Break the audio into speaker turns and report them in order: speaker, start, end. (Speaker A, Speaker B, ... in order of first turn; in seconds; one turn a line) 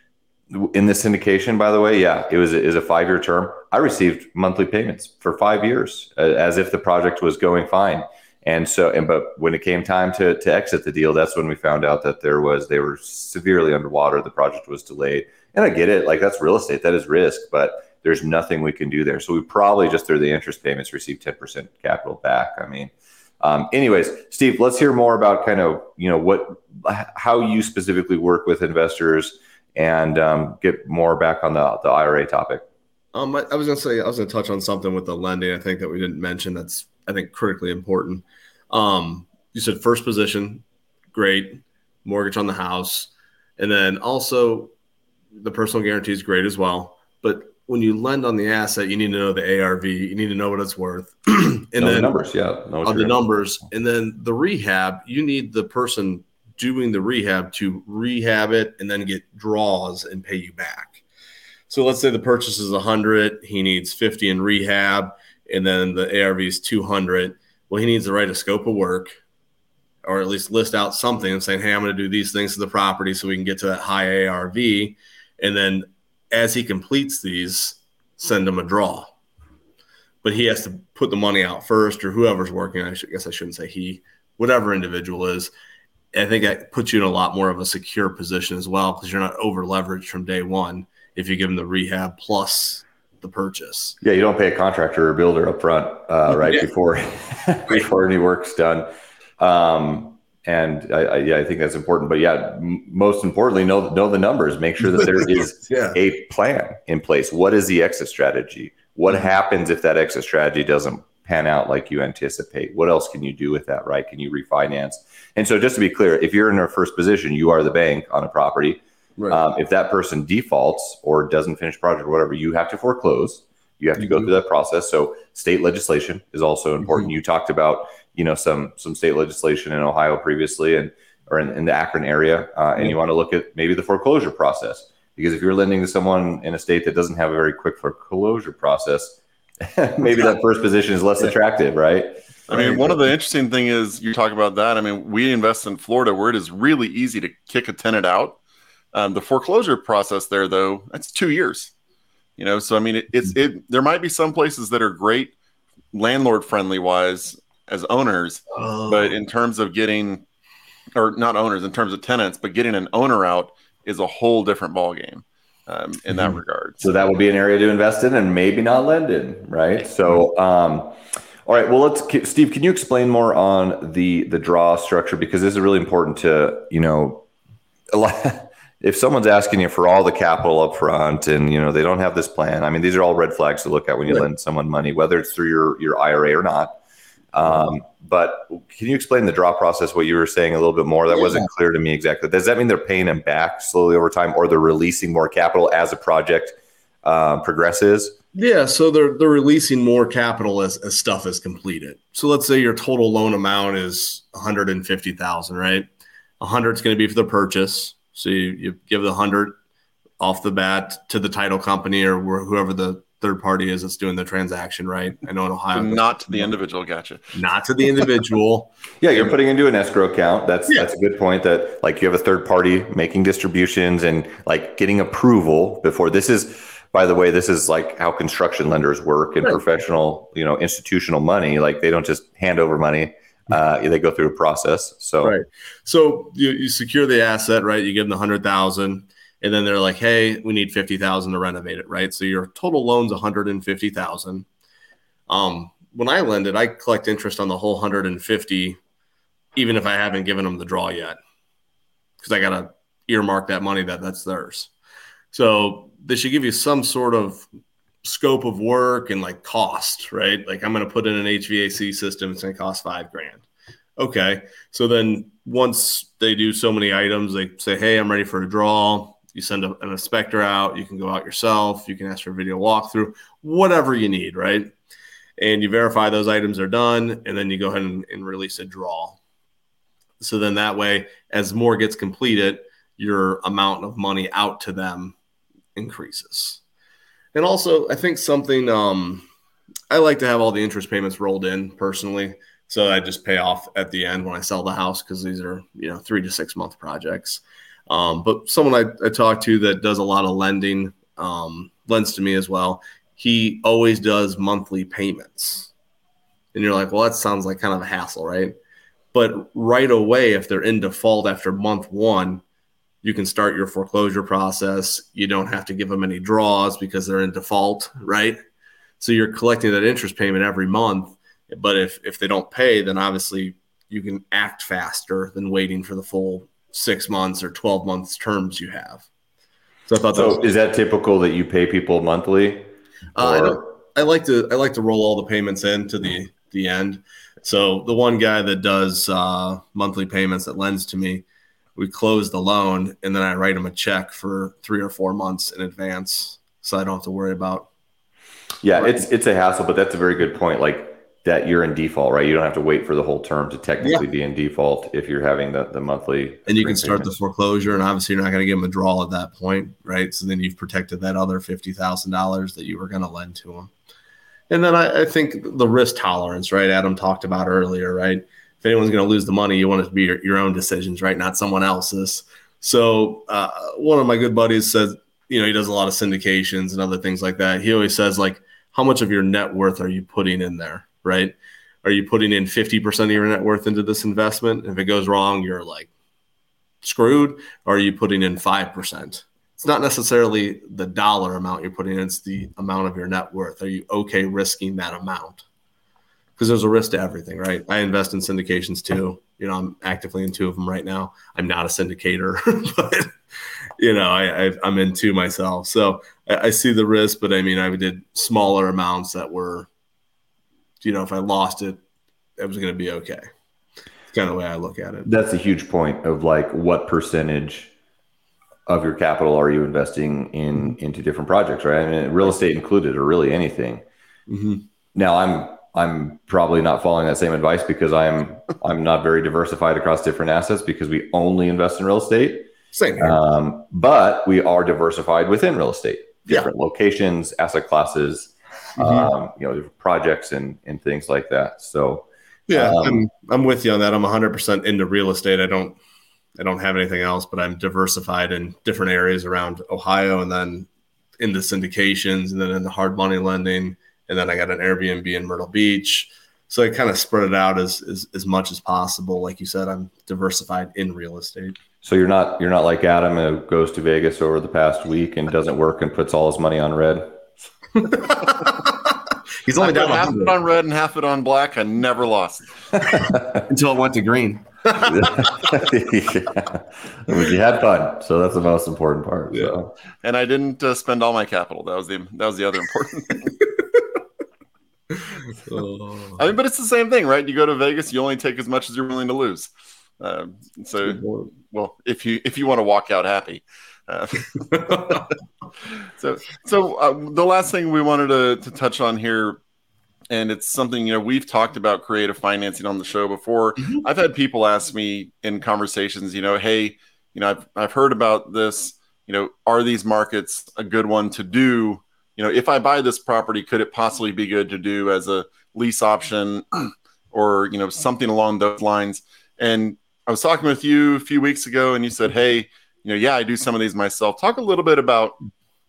Speaker A: 0.5-32.6
Speaker B: 33.1-44.7
Speaker B: 45.3-52.2
Speaker A: 51.8-53.2
Speaker B: 52.8-61.0
Speaker B: 61.7-69.2
Speaker B: 70.0-79.1
Speaker B: 80.2-85.5
Speaker B: 86.1-94.0
Speaker A: 94.0-98.9
Speaker B: 96.4-96.7
Speaker A: 99.4-142.2
Speaker B: 104.9-106.0
Speaker B: 109.1-109.3
Speaker B: 124.0-124.3
Speaker B: 126.8-127.1
Speaker C: 142.5-148.4
Speaker B: 142.5-143.0
Speaker C: 148.9-151.7
Speaker C: 152.4-155.3
Speaker C: 155.9-160.2
Speaker B: 158.5-159.2
Speaker C: 160.9-166.9
Speaker B: 166.1-166.4
Speaker A: 166.8-177.2
Speaker A: 177.9-186.8
Speaker A: 187.3-198.2
Speaker B: 191.2-191.4
Speaker B: 198.3-205.9
Speaker B: 206.4-209.6
Speaker B: 210.2-216.5
Speaker C: 215.7-217.3
Speaker B: 217.3-219.3
Speaker A: 219.0-235.4
Speaker B: 235.2-244.4
Speaker B: 245.3-248.8
Speaker B: 249.6-251.2
Speaker B: 252.2-254.7
Speaker B: 255.3-257.4
Speaker B: 258.0-263.4
Speaker B: 264.0-274.7
Speaker B: 275.4-279.2
Speaker B: 280.2-285.1
Speaker B: 285.7-286.6
Speaker B: 287.3-289.3
Speaker B: 289.9-305.7
Speaker B: 306.5-308.5
Speaker B: 309.1-312.4
Speaker B: 313.0-318.4
Speaker B: 319.0-329.1
Speaker B: 329.9-330.4
Speaker A: 330.1-333.6
Speaker B: 333.1-341.2
Speaker B: 341.8-347.7
Speaker A: 348.6-357.1
Speaker B: 356.5-363.7
Speaker B: 364.5-385.9
Speaker B: 386.8-395.4
Speaker B: 396.4-403.1
Speaker B: 403.8-409.7
Speaker B: 410.8-411.8
Speaker B: 412.4-413.2
Speaker B: 414.1-415.1
Speaker A: 415.0-417.7
Speaker A: 418.7-423.8
Speaker B: 424.3-424.6
Speaker A: 424.9-443.0
Speaker B: 432.7-433.2
Speaker B: 438.8-439.1
Speaker B: 442.5-445.8
Speaker B: 446.4-450.7
Speaker B: 451.2-461.6
Speaker A: 461.8-467.1
Speaker B: 467.8-468.9
Speaker B: 469.4-470.3
Speaker C: 469.6-472.5
Speaker A: 472.9-473.4
Speaker B: 473.4-475.2
Speaker A: 474.8-479.7
Speaker C: 480.0-483.3
Speaker B: 485.4-486.2
Speaker C: 486.2-495.1
Speaker B: 490.8-491.3
Speaker B: 494.5-495.0
Speaker C: 495.7-499.4
Speaker C: 500.1-525.2